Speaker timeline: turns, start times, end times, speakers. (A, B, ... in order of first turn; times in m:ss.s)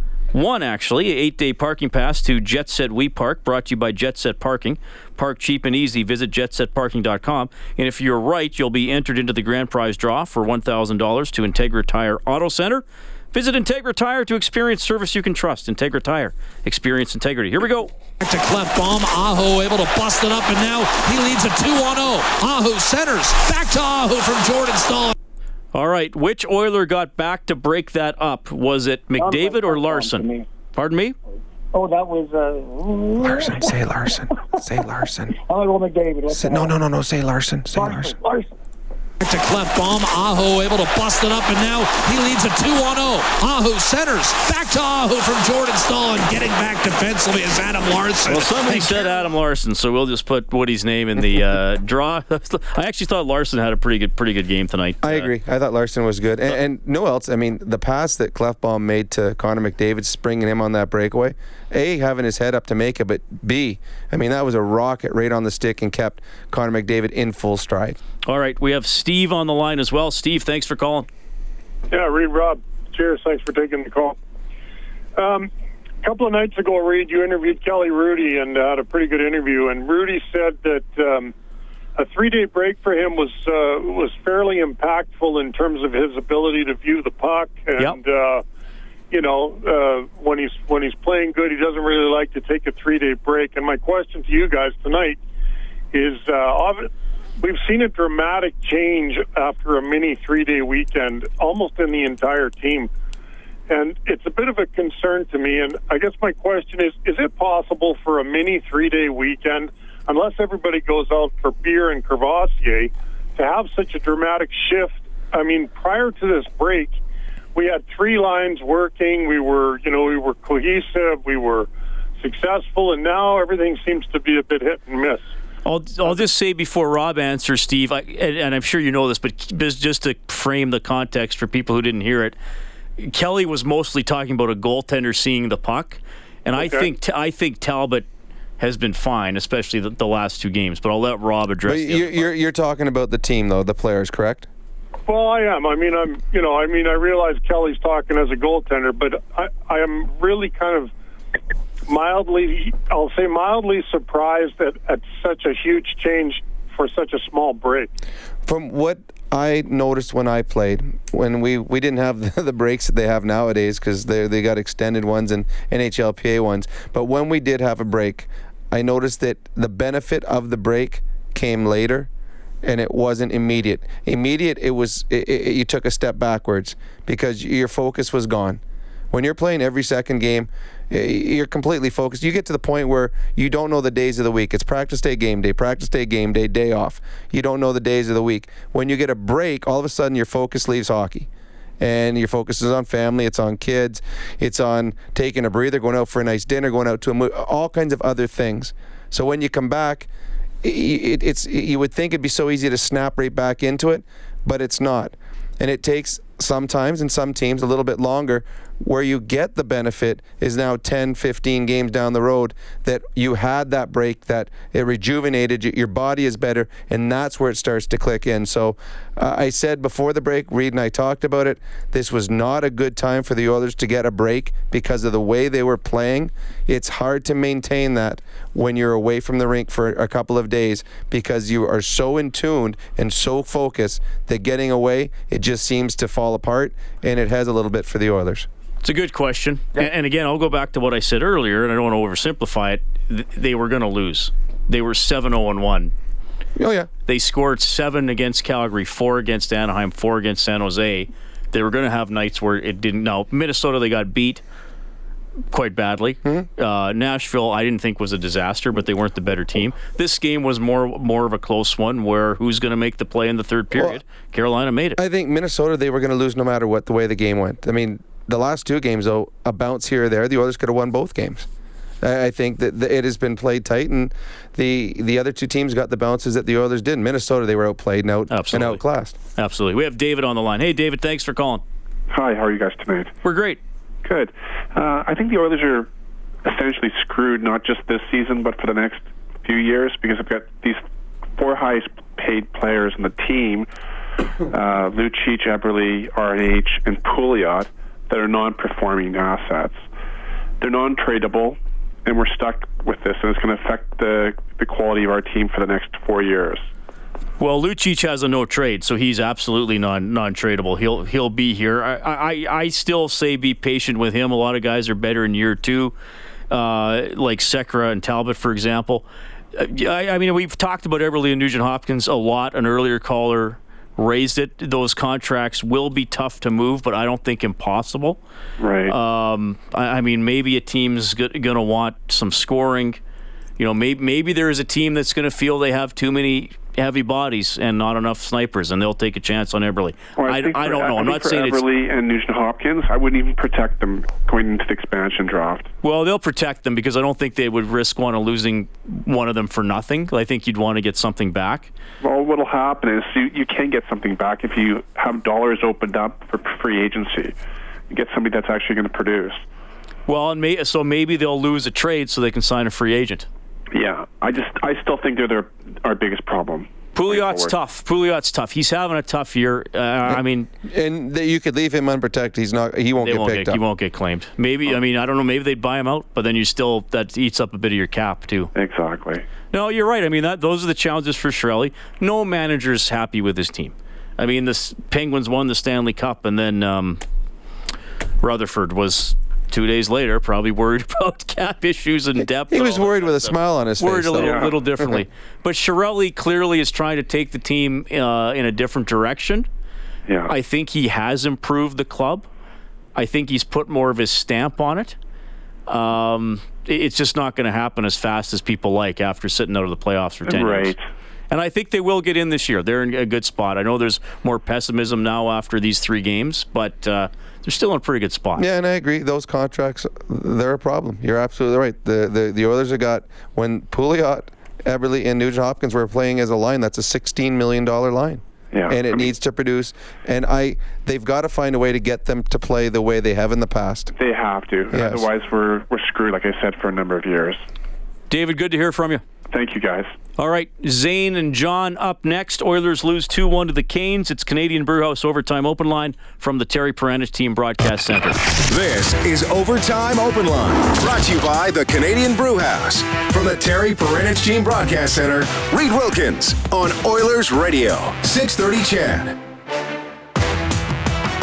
0:00.3-0:17.9 A
0:18.2-0:25.2 B
0:25.7-0:31.1 A
0:29.2-0:30.4 C
0:31.7-0:34.7 C
0:33.2-0:35.4 D
0:35.3-0:36.8 C
0:36.3-0:38.1 D
0:37.7-0:38.5 C
0:39.2-0:49.1 B
0:48.2-0:55.3 A
0:55.0-1:08.0 D
1:08.3-1:11.1 A
1:11.9-1:14.2 E
1:15.1-1:15.5 E
1:16.0-1:21.3 E
1:22.0-1:28.4 E
1:29.1-1:35.2 E
1:35.9-1:42.9 E
1:43.7-1:57.0 E
1:57.5-2:01.7 E
2:02.2-2:05.2 E
2:05.6-2:12.4 A
2:13.0-2:18.0 A
2:16.6-2:16.9 E
2:18.6-2:22.3 A
2:21.6-2:24.5 D
2:25.1-2:30.9 E
2:31.9-2:37.9 E
2:38.4-2:52.1 D
2:52.6-2:58.6 D
2:59.1-3:11.3 D
3:11.8-3:20.1 D
3:20.6-3:58.5 D
3:58.8-4:05.9 A
4:06.6-4:06.9 D
4:07.1-4:14.4 A
4:15.5-4:25.0 A
4:23.7-4:24.0 D
4:25.0-4:31.5 D
4:32.0-4:39.1 D
4:38.3-4:38.8 A
4:39.4-4:41.6 A
4:42.1-4:43.1 F
4:43.2-4:43.6 A
4:44.0-4:45.9 F
4:46.4-4:50.8 F
4:51.4-4:53.7 F
4:54.5-4:59.8 F
5:00.6-5:06.6 F
5:07.4-5:15.9 A
5:16.5-5:28.2 A
5:28.6-5:28.9 F
5:28.9-5:33.0 A
5:33.6-5:41.6 A
5:40.2-5:45.7 F
5:45.8-5:51.7 A
5:52.0-5:57.4 F
5:57.9-5:59.4 F
6:00.1-6:03.3 A
6:03.7-6:07.6 F
6:06.9-6:10.5 A
6:10.1-6:13.6 D
6:13.0-6:18.5 A
6:18.5-6:19.2 F
6:19.5-6:27.0 A
6:28.2-6:39.5 A
6:32.2-6:35.0 D
6:34.2-6:34.5 F
6:40.1-6:40.3 F
6:40.3-6:42.3 A
6:42.9-6:45.0 A
6:45.7-6:50.8 A
6:50.2-6:50.8 F
6:51.3-6:58.4 A
6:58.4-7:13.9 D
7:08.5-7:09.1 F
7:14.0-7:17.4 F
7:14.7-7:15.1 D
7:18.1-7:19.0 A
7:19.3-7:19.9 F
7:20.2-7:28.2 A
7:28.5-7:39.2 G